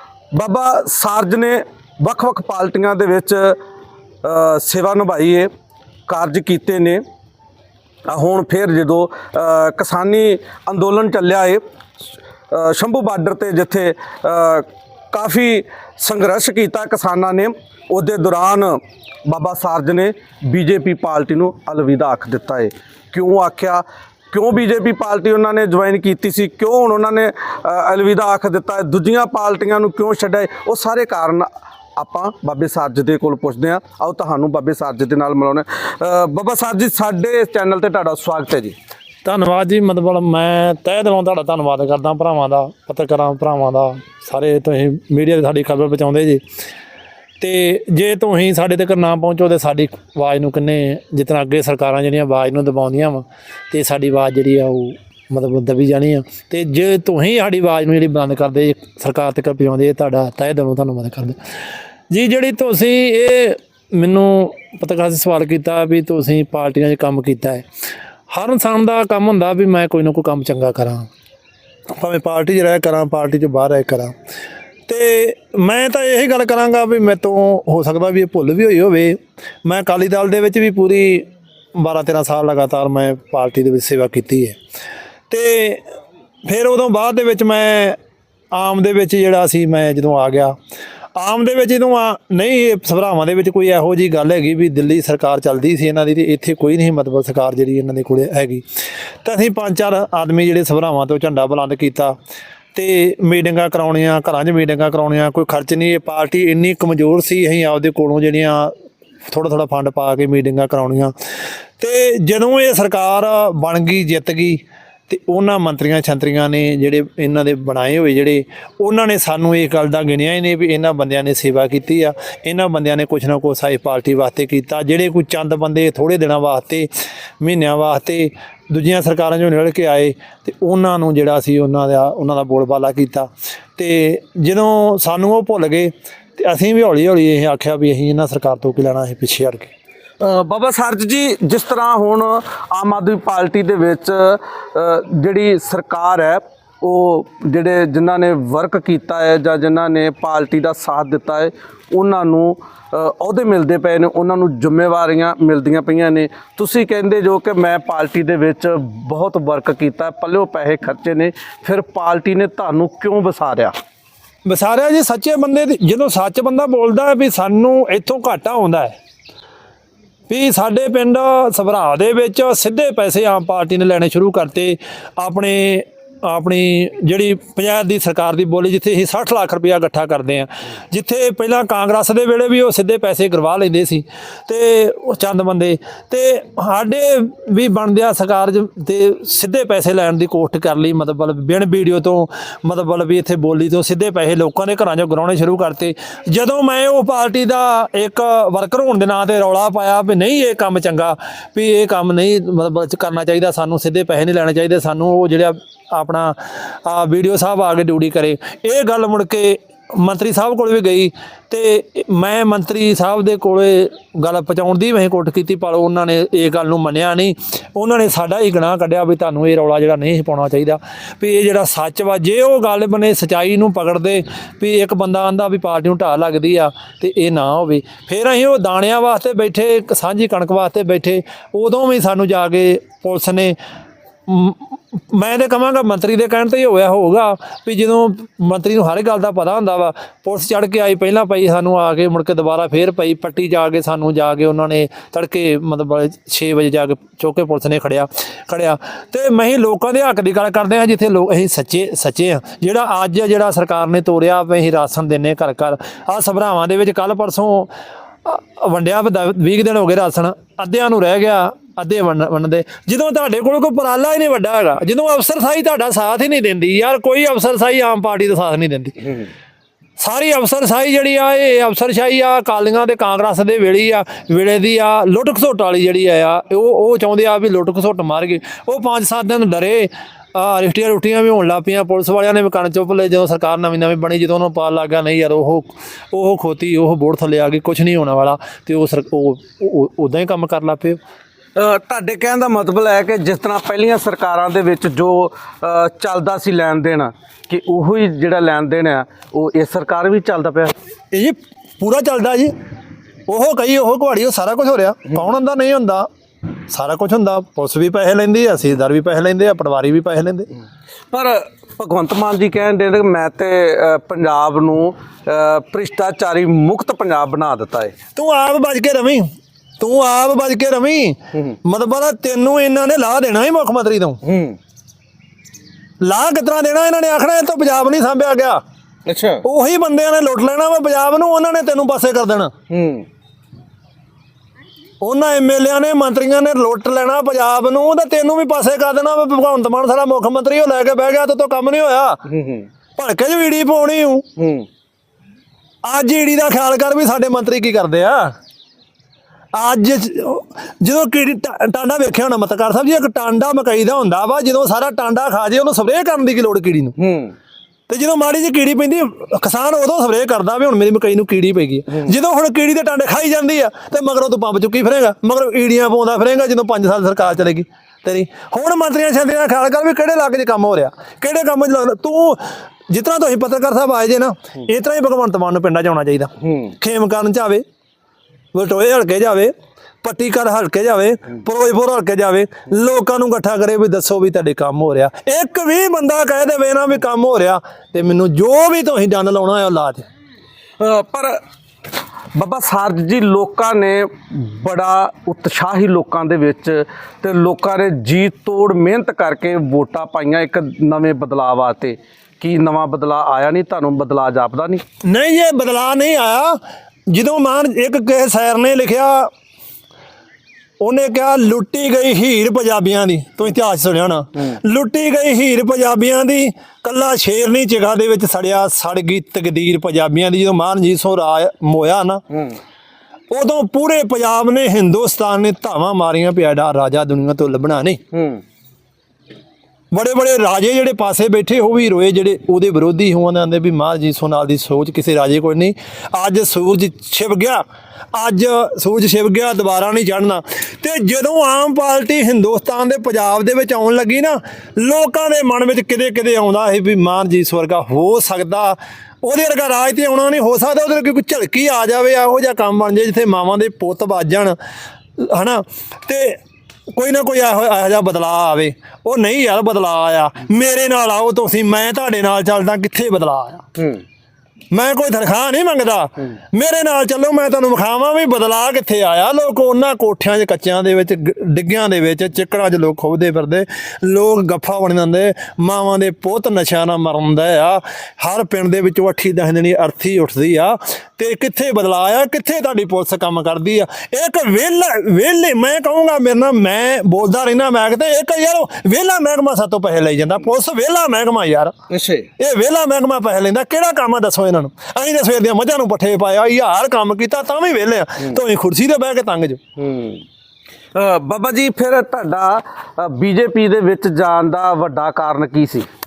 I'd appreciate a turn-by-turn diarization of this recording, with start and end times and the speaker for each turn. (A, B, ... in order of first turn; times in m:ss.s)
0:00.3-0:03.6 A
0:04.2-0:05.5 A
0:06.1-0:07.0 A
0:08.1-0:11.6 A
0:12.5-0:38.8 A
0:39.2-0:46.4 B
0:47.4-1:01.4 B
1:02.1-1:07.6 B
1:08.3-1:11.1 B
1:12.0-1:14.1 B
1:14.9-1:24.6 B
1:25.3-1:25.8 B
1:26.4-1:28.0 B
1:28.5-1:30.5 B
1:31.2-1:38.6 B
1:39.2-1:42.1 B
1:42.7-1:48.7 B
1:49.3-1:51.1 B
1:51.8-2:06.9 B
2:07.4-2:19.7 B
2:20.2-2:43.7 A
2:44.4-2:49.0 B
2:50.3-3:53.6 B
3:54.3-4:17.7 B
4:18.2-4:29.2 B
4:30.0-4:51.0 B
4:51.6-5:00.7 A
5:01.1-5:02.5 B
5:03.3-5:06.1 B
5:06.7-5:10.5 B
5:11.1-5:17.9 A
5:18.2-5:19.2 B
5:19.8-5:24.2 B
5:24.2-5:24.6 A
5:26.0-5:28.6 B
5:29.0-5:29.4 A
5:29.4-5:32.5 B
5:32.7-5:33.0 A
5:35.0-5:42.2 B
5:42.3-5:42.7 A
5:43.0-5:44.2 B
5:44.4-5:44.7 A
5:45.8-5:48.3 B
5:49.5-5:57.0 B
5:57.0-5:57.3 A
5:57.9-6:17.6 B
6:16.4-6:16.7 A
6:18.5-6:19.5 B
6:20.0-6:30.1 B
6:30.8-6:31.4 A
6:32.3-6:44.8 A
6:45.0-6:46.6 B
6:47.1-6:49.3 B
6:50.8-7:02.2 B
7:02.3-7:02.6 A
7:03.3-7:08.0 B
7:08.1-7:08.4 A
7:09.9-7:34.6 B
7:35.2-7:36.4 B
7:36.9-7:43.6 B
7:43.8-7:44.0 A
7:44.7-8:11.7 B
8:11.9-8:12.3 A
8:12.4-8:19.6 B
8:19.8-8:20.2 A
8:20.9-8:25.9 A